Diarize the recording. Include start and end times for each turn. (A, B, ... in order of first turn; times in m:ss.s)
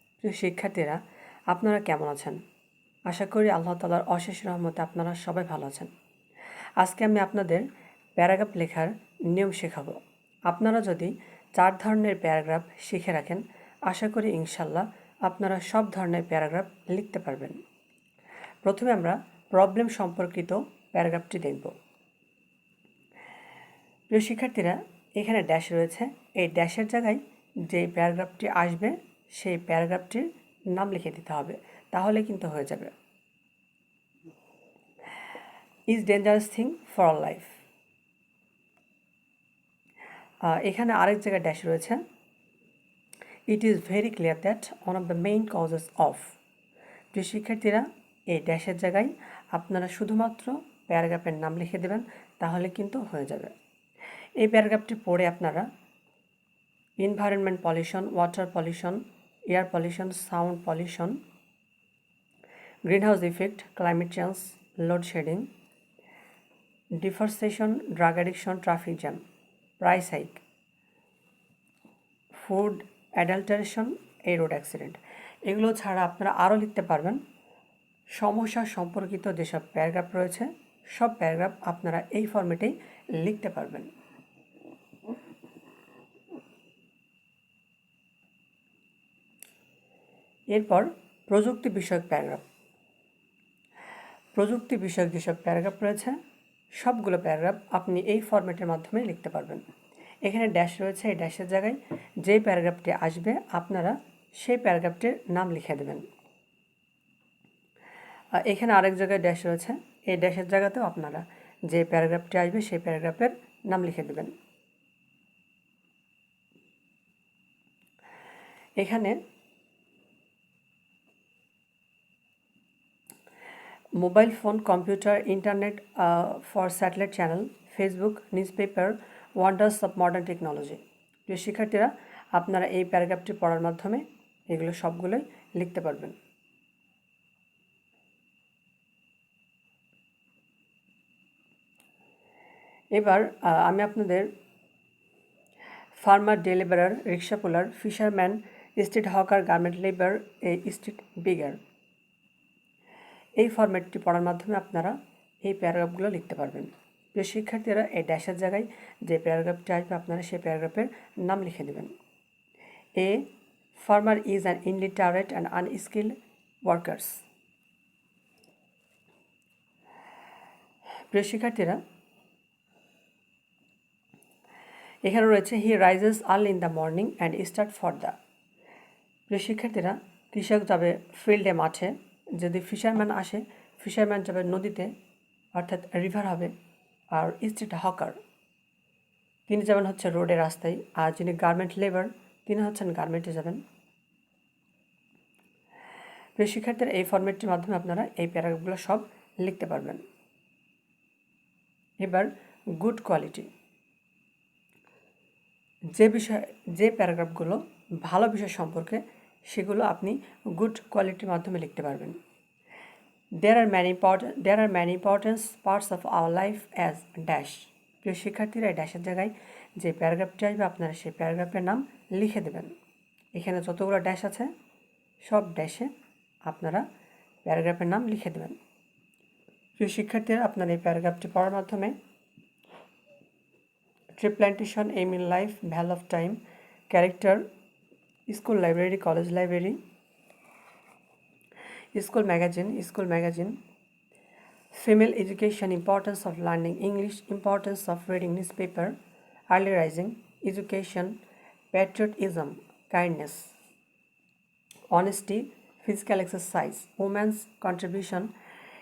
0:00.2-0:02.4 A
0:03.1-0:05.9 A
0:06.8-0:07.7 A
0:08.2-0:17.6 A
0:18.6-0:21.7 A
0:24.1-0:32.9 A
0:35.9-0:37.6 A
0:40.4-0:42.0 A
0:43.5-0:46.4 A
0:47.1-0:53.5 A
0:54.4-0:55.7 A
0:57.0-1:01.2 A
1:02.9-1:05.5 A
1:07.0-1:09.2 A
1:09.8-1:10.4 A
1:12.4-1:17.2 A
1:18.2-1:23.9 A
1:30.5-1:32.4 A
1:34.4-1:36.2 A
1:36.8-1:39.6 A
1:40.2-1:46.1 A
1:48.3-1:54.3 A
1:58.8-1:59.2 A
2:04.0-2:16.2 A
2:22.9-2:24.3 A
2:26.0-2:31.6 A
2:33.4-2:41.9 A
2:43.0-2:47.2 A
2:51.1-2:51.8 A
2:55.0-2:58.2 A
2:59.3-3:04.9 A
3:05.6-3:06.5 A
3:07.1-3:08.2 A
3:09.5-3:13.6 A
3:16.4-3:20.0 A
3:22.0-3:23.5 A
3:26.0-3:32.2 A
3:33.4-3:42.7 A
3:43.4-3:44.5 A
3:45.2-3:45.9 A
3:46.4-3:46.8 A
3:47.4-3:48.6 A
3:49.8-3:52.0 A
3:54.2-3:57.4 A
3:58.3-3:59.8 A
4:02.0-4:03.6 A
4:04.7-4:09.0 A
4:09.5-4:11.2 A
4:11.7-4:13.5 A
4:14.9-4:18.3 A